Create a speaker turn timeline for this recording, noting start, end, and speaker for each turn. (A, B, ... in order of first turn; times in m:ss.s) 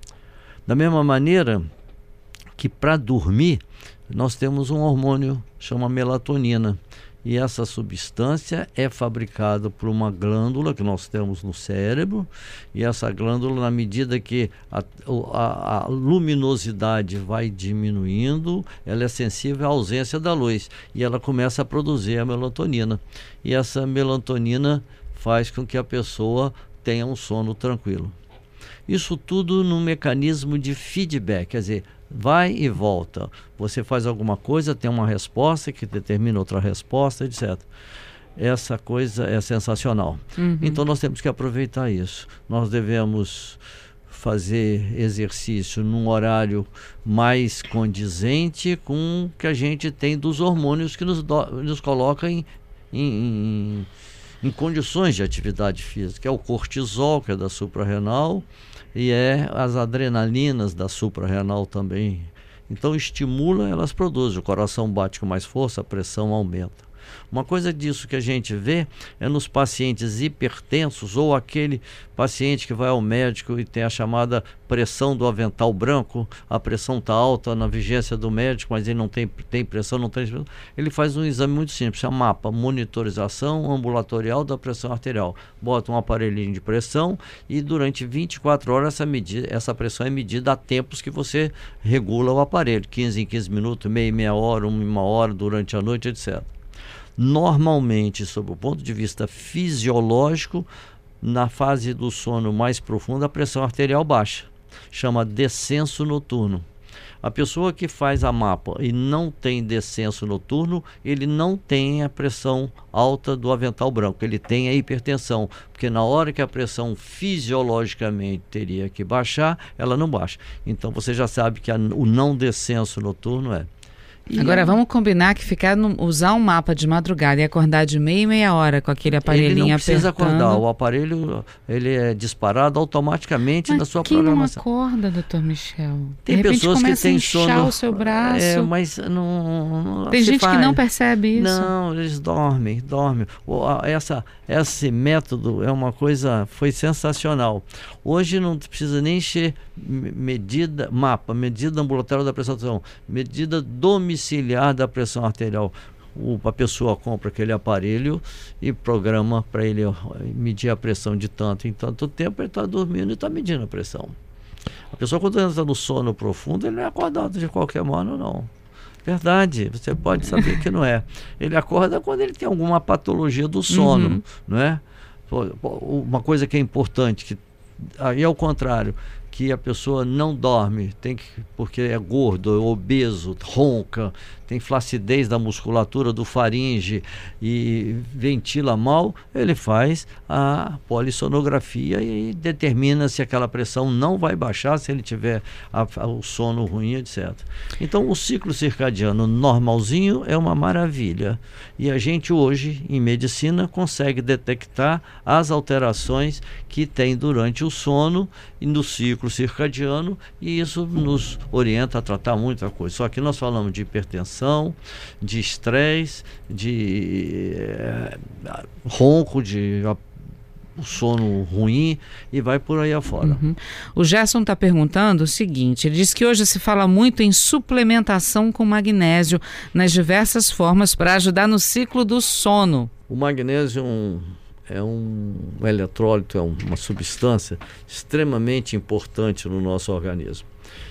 0:00.6-0:01.7 A
0:02.6-0:28.2 A
0:28.9-0:37.7 A
0:38.4-0:53.9 A
0:40.4-0:40.8 B
0:54.4-1:36.5 A
1:37.2-1:40.7 A
1:41.2-1:46.6 A
1:47.2-2:03.7 A
2:04.3-2:04.8 A
2:04.3-2:10.6 B
2:09.2-2:14.6 A
2:13.6-2:18.7 B
2:16.2-2:20.8 A
2:20.1-2:21.7 B
2:21.3-2:44.2 A
2:44.9-2:48.5 A
2:49.0-3:40.0 A
2:53.7-2:54.2 B
3:40.8-3:43.4 A
3:43.2-3:52.9 B
3:53.1-4:00.5 A